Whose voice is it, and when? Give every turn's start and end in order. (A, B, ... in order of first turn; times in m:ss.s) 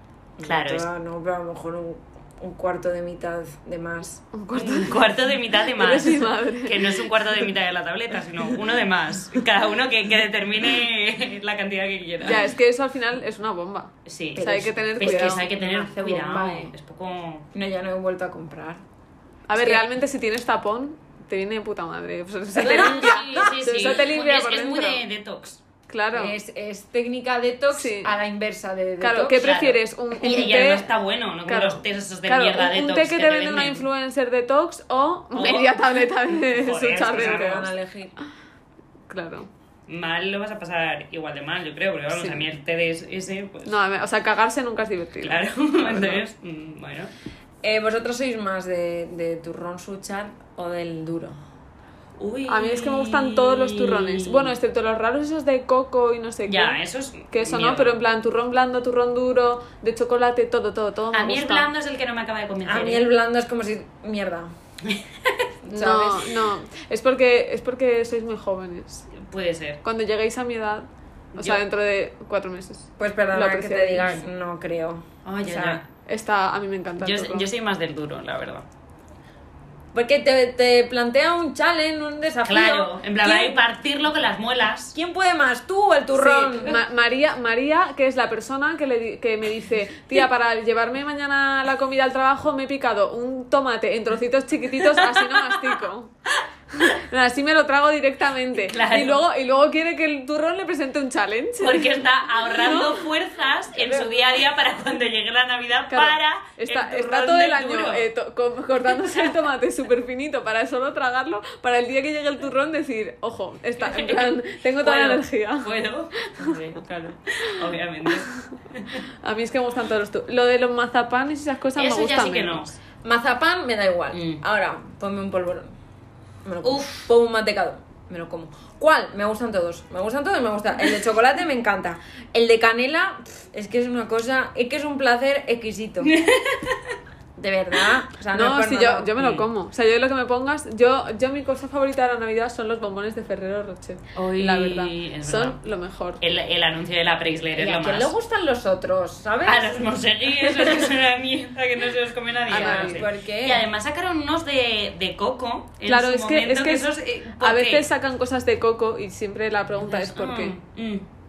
0:00.4-0:04.2 A
0:00.4-0:00.9 B
0:04.3-0:05.1 C
0:04.5-0:12.4 B
0:05.7-0:07.4 C
0:12.2-0:15.5 C
0:14.0-0:17.5 B
0:14.4-0:16.7 A
0:17.5-0:18.8 A
0:19.5-0:25.0 C
0:19.5-0:19.8 A
0:22.6-0:23.5 A
0:22.6-0:25.6 B
0:25.9-0:26.4 C
0:26.1-0:29.6 A
0:27.7-0:28.1 C
0:29.0-0:30.9 C
0:29.4-0:33.8 B
0:31.5-0:37.7 C
0:35.3-0:37.7 B
0:37.0-0:38.1 A
0:39.1-0:39.5 C
0:39.9-0:43.8 B
0:43.6-0:46.2 C
0:45.2-0:47.1 B
0:47.6-0:51.4 A
0:52.2-0:54.5 B
0:52.5-0:56.8 C
0:56.5-0:58.0 B
0:57.3-1:01.7 C
1:01.1-1:03.1 B
1:02.6-1:04.5 A
1:04.8-1:05.5 B
1:05.6-1:06.3 A
1:05.7-1:09.1 C
1:09.1-1:09.8 B
1:09.8-1:14.2 C
1:11.4-1:11.6 B
1:13.0-1:15.8 A
1:15.2-1:15.8 B
1:16.0-1:17.5 C
1:17.0-1:18.6 B
1:19.9-1:23.6 A
1:22.5-1:24.9 B
1:24.9-1:26.8 A
1:26.1-1:36.1 C
1:34.9-1:35.8 B
1:36.7-1:43.0 C
1:38.6-1:39.2 B
1:41.6-1:48.0 B
1:43.8-1:44.3 A
1:45.9-1:56.6 C
1:49.0-1:49.3 B
1:53.8-1:59.0 B
1:56.7-1:57.1 A
1:59.2-2:02.7 C
2:01.8-2:02.7 B
2:03.0-2:05.7 A
2:04.1-2:04.4 B
2:06.4-2:16.1 A
2:06.6-2:07.1 B
2:16.0-2:16.9 B
2:17.4-2:19.1 A
2:18.3-2:26.2 C
2:19.2-2:19.4 B
2:24.1-2:25.6 B
2:26.2-2:28.1 B
2:27.6-2:29.7 A
2:29.4-2:37.9 B
2:30.4-2:30.9 A
2:32.5-2:33.0 C
2:32.5-2:33.6 A
2:35.9-2:40.5 C
2:39.8-2:41.0 B